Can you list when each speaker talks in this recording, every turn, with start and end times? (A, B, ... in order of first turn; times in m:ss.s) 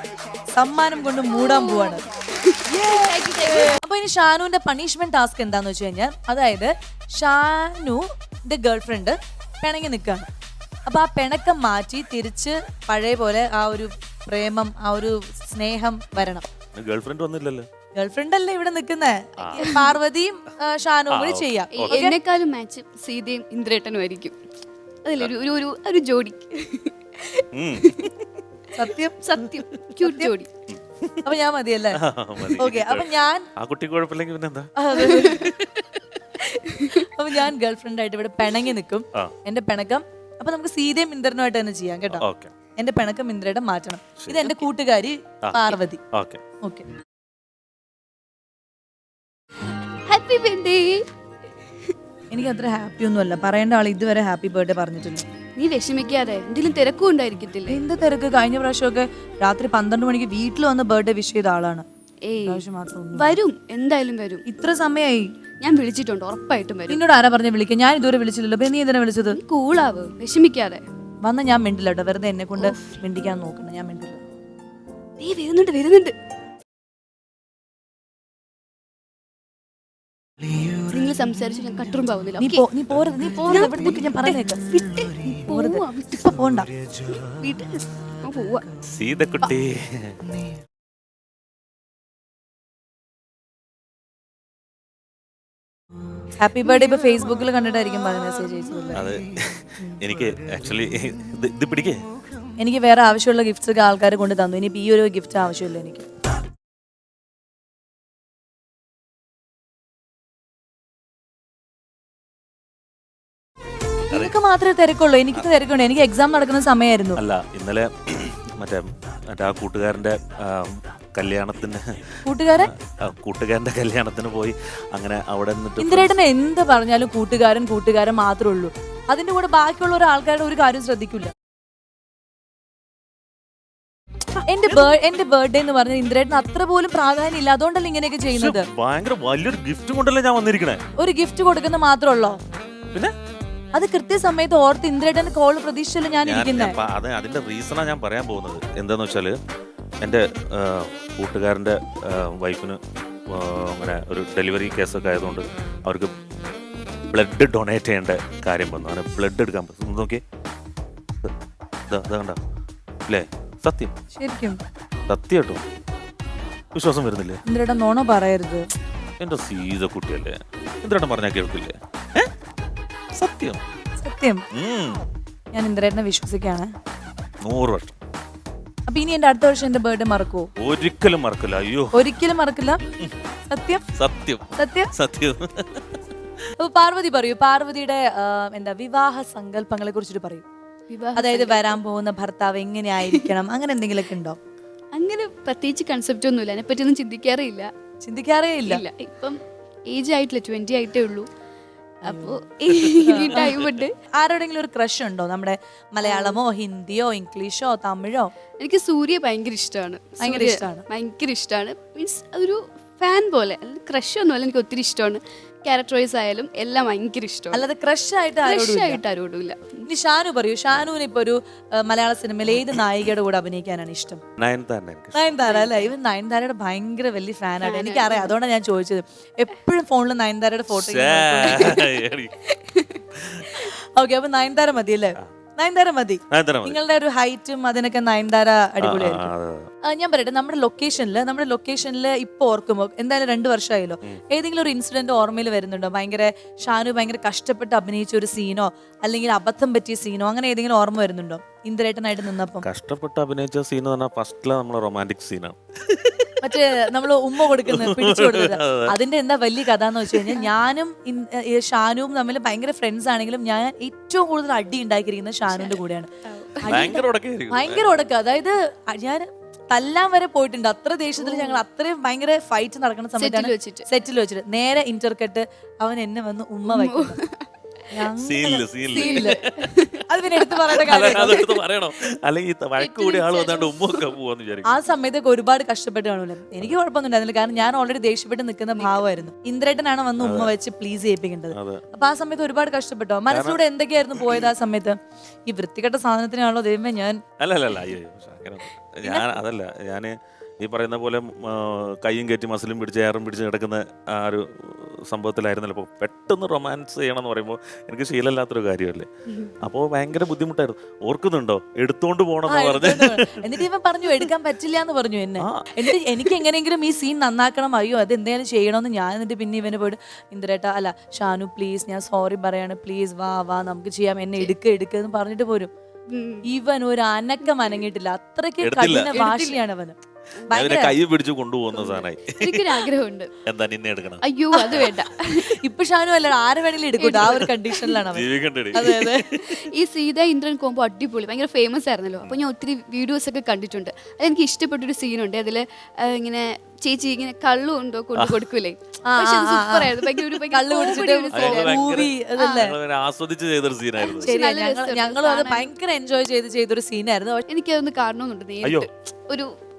0:00.5-0:02.0 A
0:01.4-0:03.8 B
0:02.7-0:10.3 A
0:10.9-0:16.5 A
0:16.8-0:17.7 C
0:18.0-0:22.2 A
0:19.4-0:19.7 C
0:19.4-0:20.0 B
0:21.1-0:22.0 C
0:21.8-0:24.4 B
0:25.0-0:28.3 B
0:27.5-0:28.0 C
0:28.7-0:29.2 A
0:29.2-0:30.5 B
0:30.0-0:30.3 A
0:30.7-0:31.3 C
0:31.2-0:32.0 A
0:31.9-0:35.8 C
0:32.6-0:33.5 A
0:34.8-0:35.5 A
0:35.0-0:35.4 B
0:36.4-0:37.0 B
0:36.9-0:42.2 A
0:42.1-0:42.5 C
0:42.8-0:46.0 A
0:44.2-0:44.6 C
0:45.4-0:46.4 C
0:50.1-0:51.1 B
0:52.3-0:55.3 A
0:55.6-0:57.8 B
0:57.7-1:01.8 A
1:02.2-1:02.6 B
1:02.5-1:03.3 A
1:03.1-1:04.5 B
1:04.5-1:05.3 A
1:05.6-1:07.0 B
1:06.9-1:09.4 A
1:09.3-1:10.8 B
1:11.2-1:14.2 A
1:12.6-1:12.9 B
1:15.2-1:16.2 B
1:20.7-1:22.6 B
1:22.4-1:24.7 A
1:23.4-1:26.4 B
1:25.4-1:26.7 A
1:27.1-1:28.7 B
1:28.8-1:30.2 C
1:36.4-1:39.0 A
1:38.9-1:42.0 C
1:42.6-1:46.1 A
1:54.1-1:54.4 C
1:54.1-1:57.2 A
1:57.2-2:06.2 C
2:02.2-2:02.7 A
2:05.8-2:11.3 A
2:14.4-2:15.0 C
2:14.5-2:18.7 A
2:18.3-2:20.8 C
2:21.0-2:22.4 A
2:23.7-2:26.8 A
2:26.2-2:29.4 C
2:30.0-2:36.1 C
2:37.1-2:40.2 C
2:41.9-2:42.4 C
2:43.1-2:43.9 C
2:44.2-2:44.6 A
2:45.1-2:45.6 C
2:46.7-2:47.4 C
2:47.5-2:48.7 A
2:49.2-2:52.3 C
2:53.2-2:53.6 C
2:54.0-2:54.4 A
2:54.5-2:55.0 C
2:55.5-2:56.7 A
2:57.4-2:58.0 C
2:58.9-3:00.5 A
3:00.6-3:02.0 C
3:02.0-3:02.8 A
3:03.5-3:03.8 A
3:04.0-3:06.0 C
3:04.6-3:04.9 A
3:06.6-3:10.4 A
3:10.9-3:11.8 B
3:11.2-3:14.4 A
3:15.0-3:17.7 B
3:18.0-3:18.8 A
3:18.7-3:21.3 B
3:22.0-3:22.4 A
3:22.0-3:24.0 B
3:23.0-3:23.4 A
3:23.1-3:23.8 C
3:24.1-3:28.3 A
3:26.0-3:26.4 B
3:28.6-3:37.6 B
3:30.2-3:30.8 A
3:37.5-3:39.0 A
3:38.4-3:39.9 B
3:39.9-3:44.2 A
3:44.4-3:45.4 C
3:45.1-3:51.9 A
3:45.4-3:45.9 B
3:47.6-3:48.4 B
3:50.7-3:52.4 C
3:51.6-3:52.0 B
3:52.5-3:53.7 B
3:53.2-3:53.4 C
3:53.5-3:59.3 A
3:56.3-3:56.8 C
3:58.8-3:59.7 C
3:59.8-4:12.6 A
4:12.6-4:16.3 C
4:16.4-4:26.1 A
4:17.6-4:19.0 C
4:25.5-4:27.0 B
4:26.6-4:37.2 A
4:26.7-4:28.0 C
4:31.2-4:31.6 B
4:33.2-4:33.8 B
4:36.7-4:37.5 B
4:37.9-4:39.4 A
4:38.2-4:39.5 C
4:38.9-4:41.6 B
4:40.1-4:41.4 A
4:40.7-4:44.8 C
4:42.8-4:44.1 B
4:44.7-4:55.0 A
4:48.8-4:49.3 B
4:50.2-4:50.5 C
4:51.5-4:51.8 C
4:53.3-4:53.6 C
4:54.2-4:54.5 C
4:55.5-4:57.2 A
4:57.4-5:09.1 C
5:09.6-5:13.6 C
5:12.5-5:25.7 A
5:15.4-5:15.8 C
5:26.1-5:26.5 B
5:26.4-5:30.0 A
5:27.4-5:27.8 B
5:28.6-5:29.3 C
5:29.1-5:29.6 B
5:30.5-5:31.0 A
5:30.5-5:32.9 C
5:31.7-5:33.3 B
5:33.4-5:35.1 C
5:34.2-5:35.6 B
5:35.4-5:39.3 A
5:37.0-5:38.0 B
5:37.2-5:37.5 C
5:38.1-5:39.5 C
5:38.9-5:52.7 B
5:49.0-5:52.8 A
5:51.3-5:54.4 C
5:54.0-5:55.7 B
5:54.2-5:57.4 A
5:57.5-5:59.5 B
5:58.6-5:58.9 C